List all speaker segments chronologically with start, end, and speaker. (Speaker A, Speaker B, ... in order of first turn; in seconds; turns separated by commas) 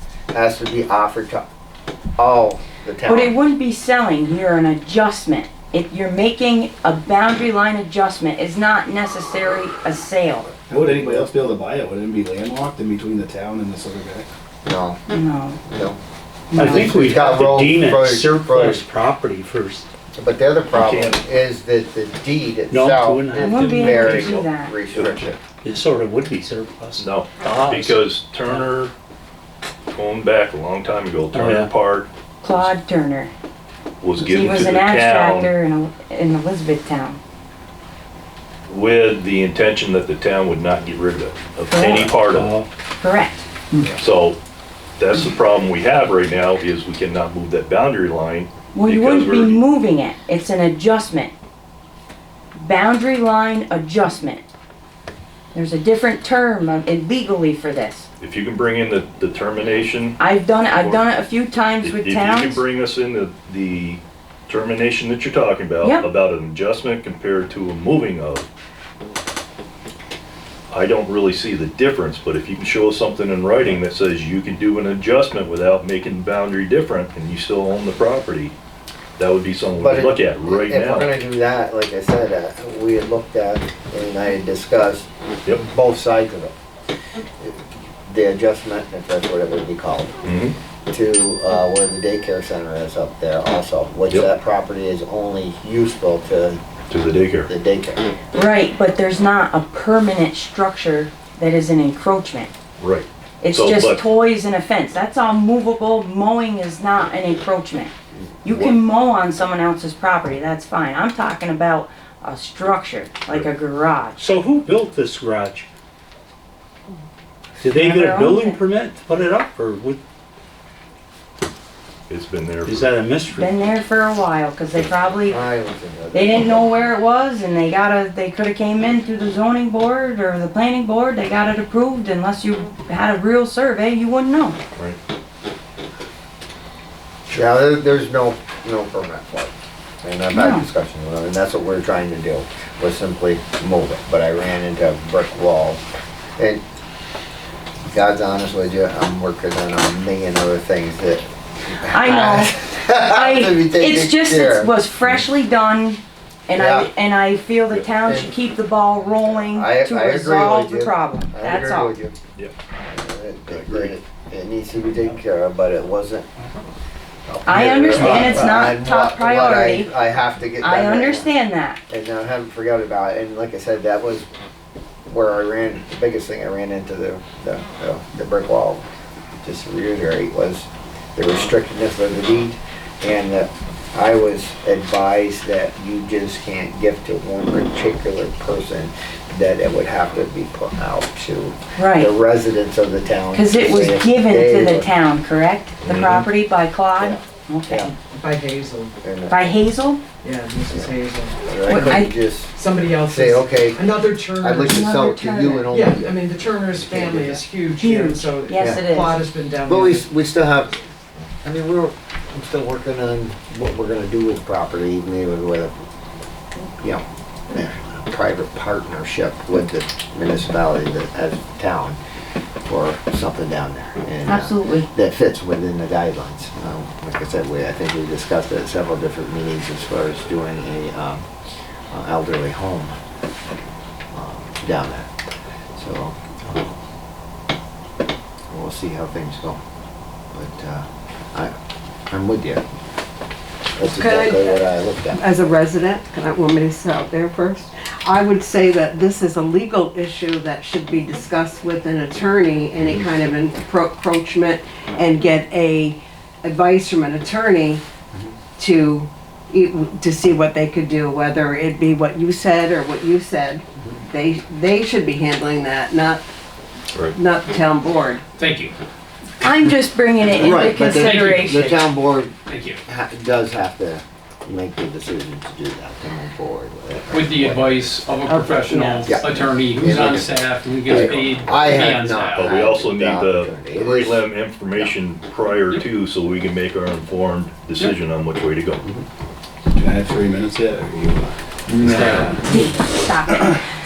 Speaker A: 0.3-1.4, Speaker A: 2.2-3.4, Speaker B: 3.1-10.5, Speaker C: 10.7-14.3, Speaker A: 14.7-15.0, Speaker B: 15.1-15.6, Speaker A: 15.7-16.0, Speaker D: 16.5-19.9, Speaker B: 16.6-16.9, Speaker A: 16.6-18.9, Speaker A: 20.2-25.4, Speaker E: 20.7-21.2, Speaker D: 22.7-24.4, Speaker B: 23.4-24.7, Speaker E: 24.1-24.5, Speaker D: 25.0-28.1, Speaker E: 27.0-28.9, Speaker E: 29.9-32.1, Speaker D: 31.3-31.7, Speaker B: 32.4-33.3, Speaker E: 34.0-35.5, Speaker B: 34.2-37.2, Speaker E: 38.7-42.5, Speaker B: 41.7-42.1, Speaker D: 42.2-42.7, Speaker B: 43.0-43.5, Speaker E: 44.0-44.4, Speaker E: 45.0-49.6, Speaker B: 48.7-51.3, Speaker B: 52.6-54.5, Speaker B: 55.5-58.1, Speaker E: 58.2-60.2, Speaker B: 60.2-62.6, Speaker E: 60.7-61.1, Speaker E: 61.8-68.5, Speaker E: 70.7-78.5, Speaker E: 79.2-81.1, Speaker A: 79.8-86.5, Speaker A: 87.4-90.2, Speaker E: 90.2-90.5, Speaker A: 90.9-96.6, Speaker E: 96.9-97.5, Speaker A: 97.5-98.0, Speaker B: 98.3-102.5, Speaker E: 102.8-104.0, Speaker B: 103.4-107.9, Speaker B: 108.4-114.2, Speaker E: 108.5-108.8, Speaker D: 114.2-115.7, Speaker D: 117.6-120.0, Speaker B: 117.7-118.6, Speaker E: 122.1-122.9, Speaker D: 122.7-123.5, Speaker B: 123.3-125.4, Speaker A: 125.3-126.9, Speaker B: 126.1-134.6, Speaker A: 137.3-145.8, Speaker B: 140.3-140.7, Speaker A: 146.4-146.6, Speaker A: 147.9-154.7, Speaker B: 151.9-161.9, Speaker A: 156.5-156.9, Speaker A: 158.1-158.3, Speaker A: 159.1-162.2, Speaker A: 162.8-166.3, Speaker E: 163.5-164.0, Speaker A: 167.3-171.3, Speaker B: 167.5-169.9, Speaker D: 167.9-168.5, Speaker B: 170.6-171.8, Speaker A: 171.9-174.3, Speaker A: 175.1-178.9, Speaker A: 179.4-194.9, Speaker B: 191.8-192.1, Speaker B: 193.3-197.9, Speaker A: 195.8-196.2, Speaker E: 195.8-196.2, Speaker A: 197.0-197.9, Speaker F: 198.0-198.9, Speaker A: 199.0-199.4, Speaker B: 199.3-200.0, Speaker F: 200.2-201.9, Speaker A: 201.4-202.5, Speaker B: 201.7-202.1, Speaker F: 202.6-204.9, Speaker A: 203.1-206.2, Speaker B: 204.7-205.7, Speaker F: 205.7-210.1, Speaker A: 206.7-207.4, Speaker B: 207.8-209.2, Speaker A: 208.6-208.8, Speaker A: 209.7-210.7, Speaker A: 211.4-215.7, Speaker A: 216.8-222.0, Speaker A: 222.7-231.3, Speaker B: 224.2-224.9, Speaker A: 231.9-232.9, Speaker A: 234.1-235.1, Speaker A: 235.8-236.8, Speaker A: 238.5-239.6, Speaker A: 240.3-241.5, Speaker A: 242.1-242.6, Speaker A: 243.8-245.2, Speaker G: 243.8-257.9, Speaker G: 258.6-266.3, Speaker G: 267.1-268.2, Speaker H: 268.4-268.7, Speaker B: 269.4-271.8, Speaker A: 270.3-272.3, Speaker H: 272.5-272.8, Speaker A: 272.9-278.2, Speaker H: 277.1-282.5, Speaker B: 278.7-279.1, Speaker A: 279.1-284.9, Speaker E: 282.3-288.8, Speaker C: 289.7-292.4, Speaker H: 291.9-292.3, Speaker B: 292.4-293.6